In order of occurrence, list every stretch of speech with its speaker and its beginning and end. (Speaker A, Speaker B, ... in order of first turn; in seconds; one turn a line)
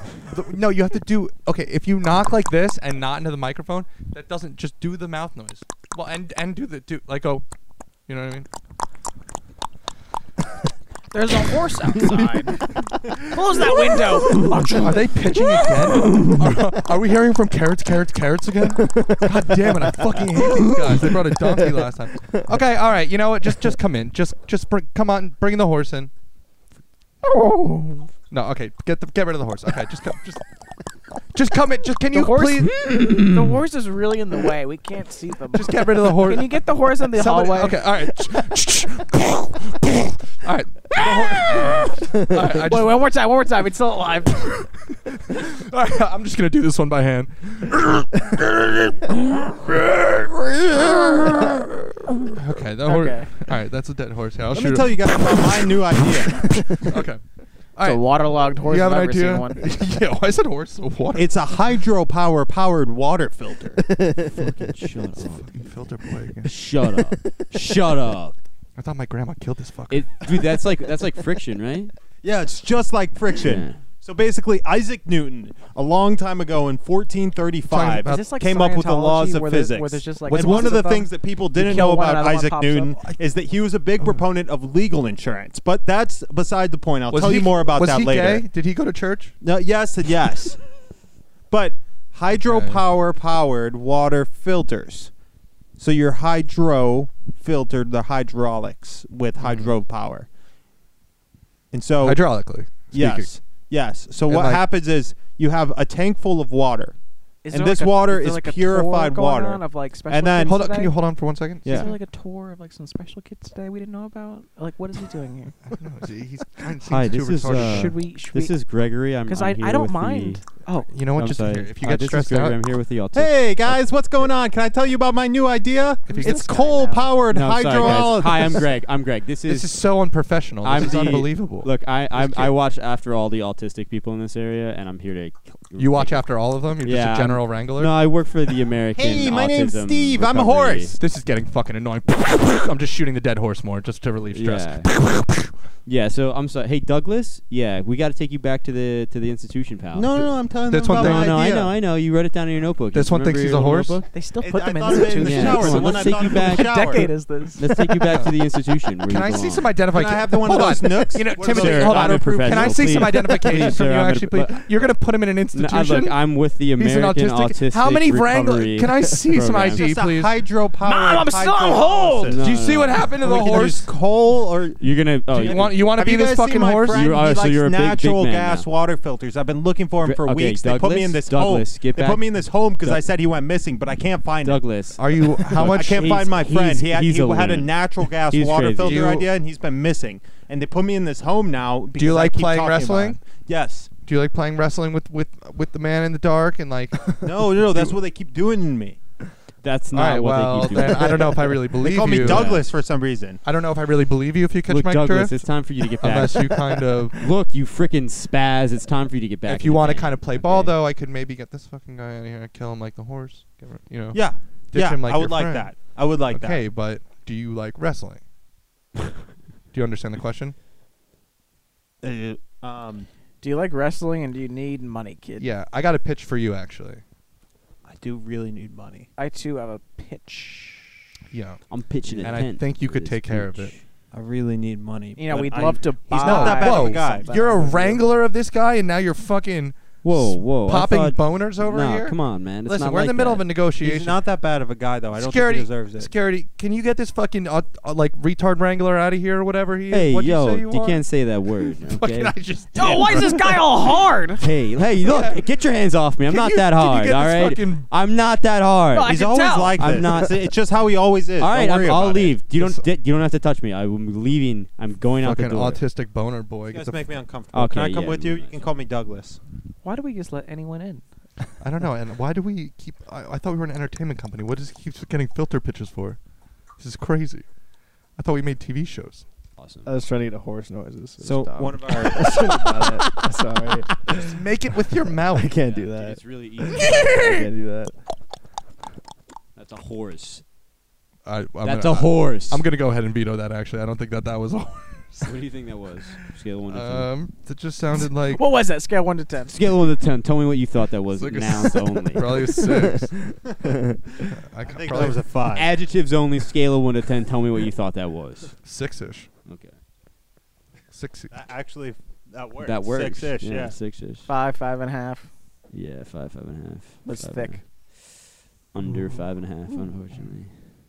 Speaker A: 0.3-7.4
Speaker A: 8.1-8.5
Speaker B: 11.1-16.3
Speaker A: 12.0-26.1
Speaker C: 18.8-22.4
Speaker A: 28.3-30.4
Speaker A: 31.3-32.7
Speaker B: 32.1-37.8
Speaker D: 32.8-33.3
Speaker A: 35.5-43.1
Speaker B: 40.9-44.6
Speaker A: 44.4-51.6
Speaker A: 52.2-57.2
Speaker B: 52.8-53.3
Speaker E: 54.5-56.7
Speaker A: 57.8-61.6
Speaker B: 57.8-59.6
Speaker E: 61.1-63.8
Speaker C: 63.8-64.5
Speaker D: 64.3-65.7
Speaker A: 65.2-66.5
Speaker D: 66.4-68.3
Speaker A: 68.8-70.1
Speaker D: 69.9-71.9
Speaker E: 72.2-88.5
Speaker D: 73.4-73.8
Speaker A: 77.7-78.3
Speaker B: 78.0-83.0
Speaker A: 80.2-80.8
Speaker A: 87.1-89.3
Speaker E: 89.4-90.6
Speaker E: 91.5-95.1
Speaker A: 92.4-92.8
Speaker E: 95.8-100.3
Speaker E: 101.7-102.3
Speaker A: 102.0-103.3
Speaker E: 102.9-107.0
Speaker A: 104.2-104.6
Speaker B: 107.4-111.0
Speaker E: 107.5-110.6
Speaker A: 110.4-111.9
Speaker E: 111.6-112.0
Speaker B: 111.7-115.5
Speaker A: 115.7-118.0
Speaker D: 116.8-120.5
Speaker B: 117.4-118.6
Speaker B: 119.2-120.9
Speaker A: 120.9-122.6
Speaker D: 121.0-124.3
Speaker E: 123.1-128.7
Speaker A: 126.1-127.0
Speaker B: 126.1-127.2
Speaker D: 127.3-129.8
Speaker A: 127.8-128.2
Speaker A: 129.4-132.6
Speaker D: 130.6-141.0
Speaker A: 135.8-137.9
Speaker E: 139.0-141.0
Speaker A: 141.0-145.5
Speaker D: 144.3-145.0
Speaker D: 145.8-150.3
Speaker E: 149.9-151.7
Speaker A: 150.2-151.4
Speaker D: 150.8-154.1
Speaker A: 152.9-154.0
Speaker B: 154.1-158.0
Speaker E: 154.4-157.1
Speaker D: 154.9-159.7
Speaker A: 159.1-166.2
Speaker E: 159.9-163.2
Speaker D: 161.4-164.7
Speaker D: 165.5-169.9
Speaker A: 166.8-170.4
Speaker E: 169.7-172.4
Speaker B: 170.8-172.4
Speaker D: 172.3-173.1
Speaker A: 172.3-173.9
Speaker E: 173.2-184.7
Speaker D: 174.8-175.8
Speaker A: 175.4-177.1
Speaker D: 176.8-178.7
Speaker D: 180.0-183.1
Speaker D: 184.4-189.2
Speaker A: 184.9-186.2
Speaker E: 185.5-193.9
Speaker A: 188.8-189.3
Speaker A: 191.9-193.2
Speaker A: 194.1-198.0
Speaker E: 197.2-199.0
Speaker D: 199.6-202.7
Speaker A: 199.9-202.6
Speaker E: 201.8-203.4
Speaker A: 203.4-207.2
Speaker D: 204.7-210.8
Speaker A: 209.5-218.2
Speaker E: 214.1-216.7
Speaker A: 219.7-220.5
Speaker E: 222.0-223.1
Speaker B: 223.4-225.5
Speaker A: 225.4-227.0
Speaker E: 227.8-229.1
Speaker B: 229.2-230.9
Speaker A: 231.3-233.7
Speaker D: 231.7-233.8
Speaker E: 234.1-237.7
Speaker B: 235.2-238.0
Speaker A: 235.5-244.2
Speaker D: 240.0-243.5
Speaker E: 243.8-246.1
Speaker A: 245.1-251.1
Speaker D: 249.9-252.4
Speaker A: 251.9-253.6
Speaker B: 252.7-254.4
Speaker D: 254.4-259.2
Speaker A: 255.0-255.4
Speaker A: 256.2-257.9
Speaker B: 258.9-260.1
Speaker E: 259.0-262.4
Speaker D: 259.7-260.5
Speaker D: 261.4-265.8
Speaker A: 262.5-262.8
Speaker A: 265.2-267.2
Speaker E: 266.7-269.4
Speaker D: 267.5-268.7
Speaker B: 269.8-271.0
Speaker A: 271.6-279.2
Speaker D: 279.6-279.9
Speaker C: 279.8-284.3
Speaker E: 281.2-282.5
Speaker A: 284.1-285.6
Speaker C: 285.2-286.2
Speaker D: 285.6-287.2
Speaker C: 286.7-288.0
Speaker A: 286.8-287.3
Speaker D: 289.5-290.4
Speaker A: 291.2-295.4
Speaker D: 291.6-292.6
Speaker D: 295.2-297.1
Speaker A: 296.7-298.4
Speaker B: 298.3-299.6
Speaker D: 299.5-302.6
Speaker A: 301.1-303.2
Speaker C: 303.0-303.9
Speaker A: 304.3-305.2
Speaker E: 304.6-305.7
Speaker D: 305.5-308.6
Speaker A: 308.6-309.3
Speaker D: 309.4-309.7
Speaker A: 310.9-311.3
Speaker E: 311.3-313.8
Speaker D: 312.6-314.3
Speaker B: 314.2-315.3
Speaker D: 315.7-320.7
Speaker B: 317.0-317.6
Speaker A: 318.8-319.1